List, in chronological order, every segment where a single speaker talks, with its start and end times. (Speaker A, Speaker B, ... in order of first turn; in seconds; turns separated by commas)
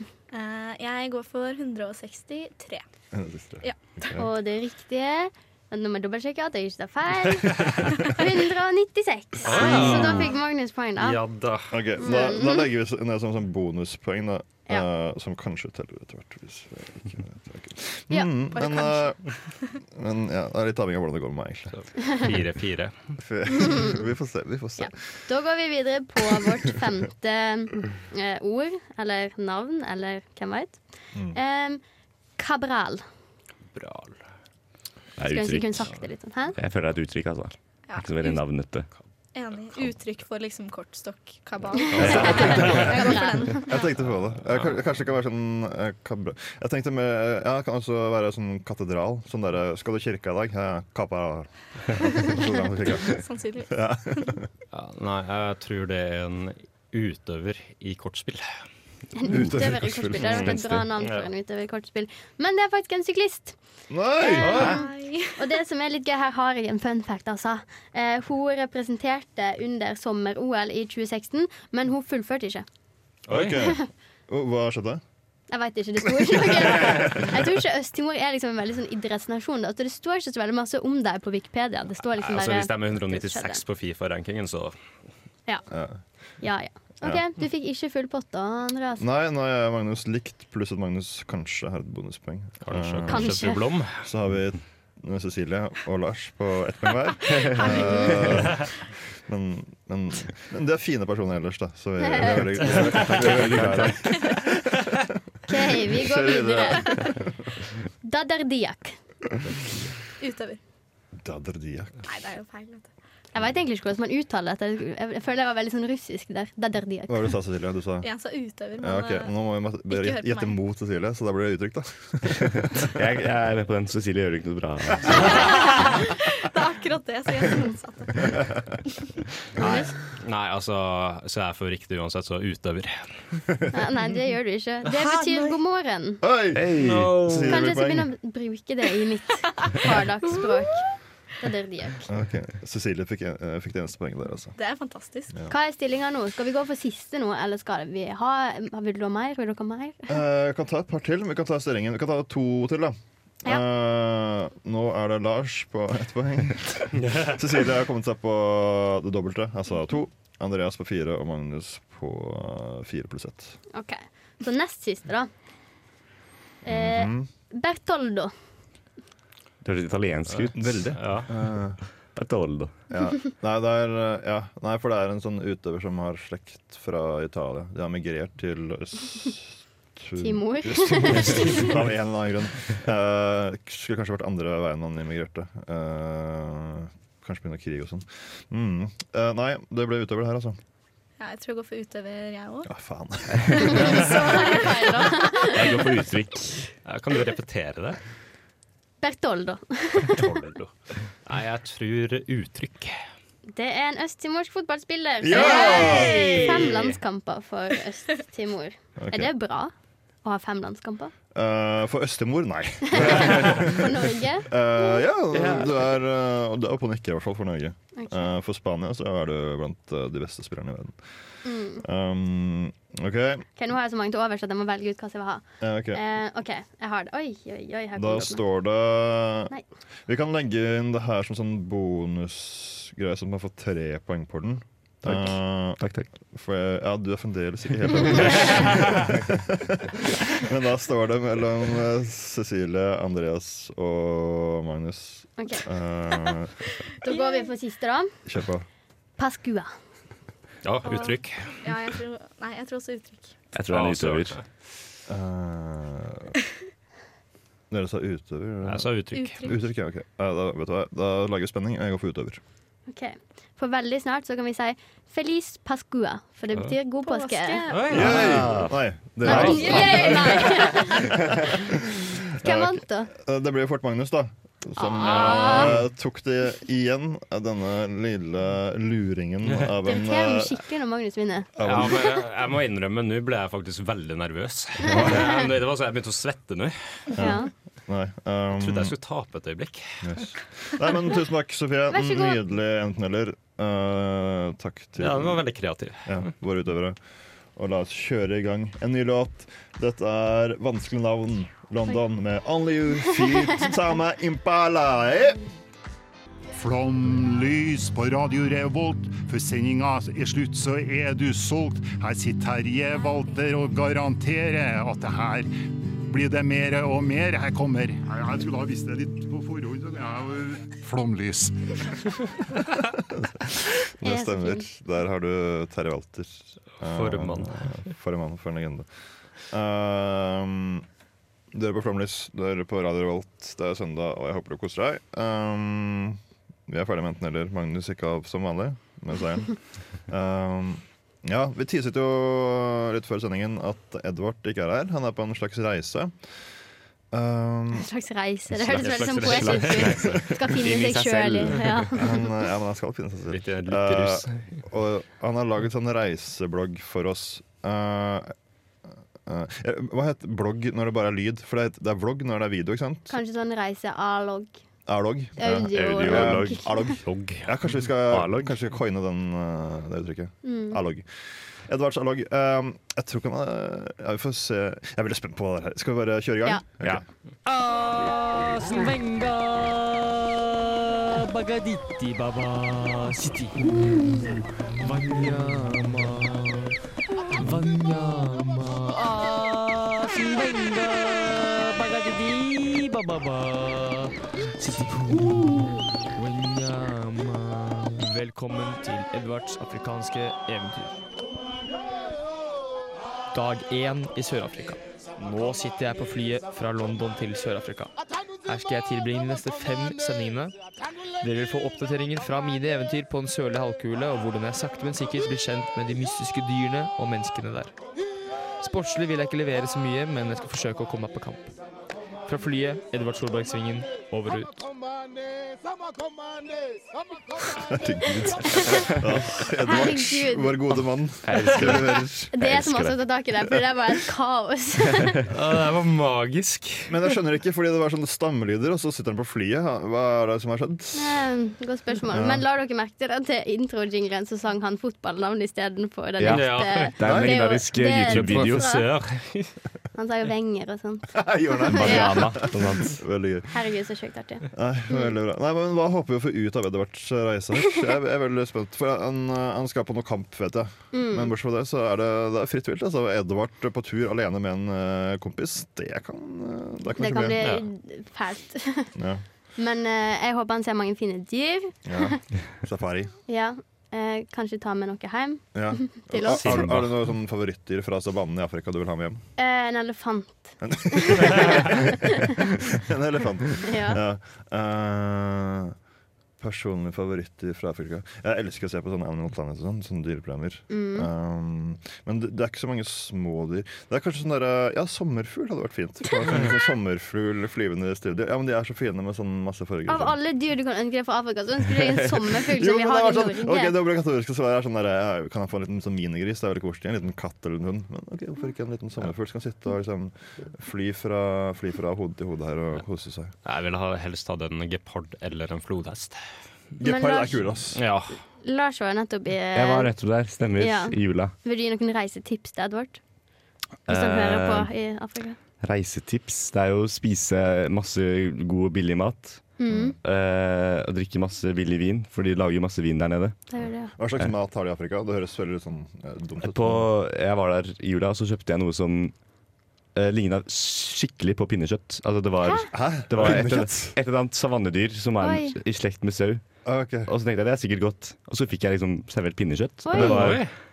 Speaker A: 0.3-2.8, Speaker B: 3.1-4.3, Speaker C: 4.1-11.2, Speaker D: 9.4-10.4, Speaker B: 9.5-10.3, Speaker D: 11.0-11.8, Speaker B: 11.7-19.2, Speaker C: 12.0-12.7, Speaker A: 18.5-19.1, Speaker B: 19.8-21.7, Speaker D: 21.7-23.2, Speaker B: 23.2-24.9, Speaker C: 24.8-31.8, Speaker C: 32.4-33.0, Speaker D: 33.7-34.2, Speaker E: 35.2-36.0, Speaker C: 35.3-36.6, Speaker E: 36.5-38.9, Speaker A: 37.9-38.4, Speaker A: 39.3-43.9, Speaker D: 41.9-42.9, Speaker C: 42.0-43.6, Speaker B: 42.0-42.9, Speaker B: 43.6-54.5, Speaker A: 53.0-54.4, Speaker D: 54.7-58.5, Speaker C: 59.2-63.6, Speaker B: 59.2-60.8, Speaker D: 60.3-61.3, Speaker B: 63.9-64.7, Speaker C: 64.2-72.7, Speaker A: 64.2-65.5, Speaker D: 64.4-64.8, Speaker D: 73.3-73.6, Speaker B: 73.3-75.0, Speaker C: 75.5-83.6, Speaker D: 82.2-84.8, Speaker B: 85.7-86.0, Speaker C: 86.4-89.0, Speaker B: 89.0-93.5, Speaker D: 92.6-94.0, Speaker C: 93.1-93.6, Speaker B: 94.0-105.0, Speaker E: 97.3-98.5, Speaker C: 97.7-98.1, Speaker E: 102.6-104.1, Speaker C: 105.5-107.2, Speaker B: 105.8-107.3, Speaker C: 108.0-109.0, Speaker A: 110.2-110.6, Speaker B: 111.2-112.0, Speaker A: 112.0-112.9, Speaker C: 113.3-117.3, Speaker B: 117.1-118.1, Speaker A: 118.0-119.3, Speaker B: 118.8-122.8, Speaker A: 119.9-120.6, Speaker E: 122.8-125.5, Speaker A: 125.1-128.3, Speaker A: 129.6-129.9, Speaker D: 129.6-133.2, Speaker C: 133.7-136.2, Speaker A: 134.9-135.6, Speaker B: 136.2-138.1, Speaker E: 136.5-137.4, Speaker D: 136.8-137.5, Speaker C: 137.5-140.9, Speaker A: 139.6-140.7, Speaker C: 141.4-142.1, Speaker B: 142.1-144.6, Speaker A: 144.6-145.3, Speaker C: 145.5-150.1, Speaker B: 150.1-163.6, Speaker D: 157.0-157.4, Speaker C: 163.7-165.3, Speaker C: 166.7-168.3, Speaker B: 166.7-167.3, Speaker E: 169.6-170.9, Speaker D: 170.3-171.3, Speaker B: 170.6-171.8, Speaker E: 172.1-172.8, Speaker B: 172.9-190.6, Speaker C: 180.2-181.8, Speaker A: 191.2-192.7, Speaker B: 192.7-194.0, Speaker E: 193.4-194.2, Speaker C: 193.7-195.6, Speaker A: 194.4-195.1, Speaker E: 195.4-196.7, Speaker D: 196.8-198.0, Speaker C: 199.0-200.2, Speaker D: 200.0-200.7, Speaker D: 201.2-203.0, Speaker C: 203.5-209.7, Speaker B: 205.2-206.5, Speaker A: 205.3-206.7, Speaker D: 206.0-207.0, Speaker B: 209.0-209.3, Speaker C: 210.2-211.1, Speaker B: 211.3-221.2, Speaker C: 212.9-215.0, Speaker E: 215.3-215.9, Speaker C: 218.0-218.3, Speaker C: 221.4-221.8, Speaker B: 221.8-223.4, Speaker C: 223.6-228.4, Speaker B: 225.6-226.0, Speaker B: 228.0-229.5, Speaker B: 230.1-246.7, Speaker E: 235.0-236.1, Speaker C: 245.4-245.7, Speaker A: 247.0-247.5, Speaker C: 247.0-248.1, Speaker B: 248.3-248.7, Speaker C: 249.2-249.7, Speaker D: 250.6-251.6, Speaker C: 250.9-251.1, Speaker A: 251.6-253.3, Speaker E: 253.5-254.4, Speaker D: 253.7-254.4, Speaker B: 255.1-256.4, Speaker B: 257.7-262.4, Speaker D: 258.6-259.4, Speaker A: 259.1-259.6, Speaker C: 262.9-267.8, Speaker A: 267.0-268.2, Speaker D: 267.7-268.3, Speaker E: 267.9-270.1, Speaker B: 267.9-280.6, Speaker C: 269.2-271.1, Speaker A: 269.3-271.0, Speaker C: 272.4-273.1, Speaker C: 274.8-275.7, Speaker D: 275.1-275.8, Speaker C: 279.9-281.5, Speaker B: 281.6-282.2, Speaker D: 281.6-287.2, Speaker B: 284.8-285.3, Speaker C: 284.9-285.4, Speaker C: 287.2-287.5, Speaker B: 287.2-289.0, Speaker D: 288.6-290.2, Speaker B: 290.0-295.4, Speaker C: 291.9-292.4, Speaker D: 295.0-296.3, Speaker B: 296.1-297.0, Speaker B: 297.6-305.4, Speaker F: 306.6-315.5, Speaker F: 316.1-321.9, Speaker B: 323.2-328.9, Speaker C: 324.0-324.7, Speaker D: 326.8-327.7, Speaker B: 329.5-330.9, Speaker B: 331.5-346.1, Speaker B: 347.1-347.9, Speaker C: 347.7-352.3, Speaker D: 348.7-350.1, Speaker E: 348.8-351.9, Speaker B: 351.9-358.3, Speaker D: 353.3-354.5, Speaker B: 359.2-363.2, Speaker C: 363.1-364.6, Speaker B: 364.9-377.0, Speaker C: 365.4-367.0, Speaker E: 365.7-367.3, Speaker D: 367.2-367.5, Speaker E: 368.1-368.5, Speaker C: 370.4-370.8, Speaker G: 377.4-383.7, Speaker G: 384.8-386.8, Speaker G: 387.3-401.0, Speaker G: 403.3-410.6, Speaker G: 411.2-417.8, Speaker G: 418.6-421.6, Speaker G: 422.3-424.7, Speaker B: 427.7-432.3, Speaker E: 428.0-429.1, Speaker C: 429.6-430.6, Speaker E: 431.2-433.2, Speaker C: 432.3-435.2, Speaker D: 435.3-437.0, Speaker B: 436.9-441.3, Speaker C: 440.9-448.9, Speaker B: 442.1-442.4, Speaker E: 446.2-448.7, Speaker D: 446.3-446.9, Speaker B: 447.0-447.4, Speaker D: 448.1-449.5, Speaker C: 449.9-452.5, Speaker B: 451.1-453.6, Speaker E: 451.6-453.0, Speaker C: 453.5-454.5, Speaker B: 454.5-467.5, Speaker C: 460.9-461.3, Speaker C: 467.0-468.9, Speaker D: 467.4-467.7, Speaker B: 469.0-469.2, Speaker C: 469.6-472.2, Speaker B: 471.9-473.1, Speaker C: 473.3-476.6, Speaker B: 475.6-479.2, Speaker D: 476.3-477.0, Speaker C: 479.4-482.0, Speaker B: 480.6-481.8, Speaker B: 482.4-485.8, Speaker C: 483.6-484.0, Speaker B: 486.4-500.2, Speaker C: 490.7-491.1, Speaker C: 499.9-503.8, Speaker B: 502.2-513.3, Speaker D: 513.5-516.2, Speaker B: 516.8-517.8, Speaker C: 516.8-517.4, Speaker D: 517.8-518.2, Speaker C: 518.4-519.9, Speaker E: 519.5-521.3, Speaker C: 520.6-523.0, Speaker E: 523.9-524.7, Speaker C: 523.9-525.4, Speaker E: 525.6-533.4, Speaker C: 529.6-530.0, Speaker C: 533.5-533.9, Speaker B: 534.0-536.9, Speaker E: 536.4-539.1, Speaker E: 540.0-546.5, Speaker C: 542.4-542.7, Speaker B: 542.7-544.0, Speaker C: 545.2-545.5, Speaker B: 546.6-547.1, Speaker E: 547.0-550.5, Speaker C: 549.9-550.4, Speaker D: 550.0-550.5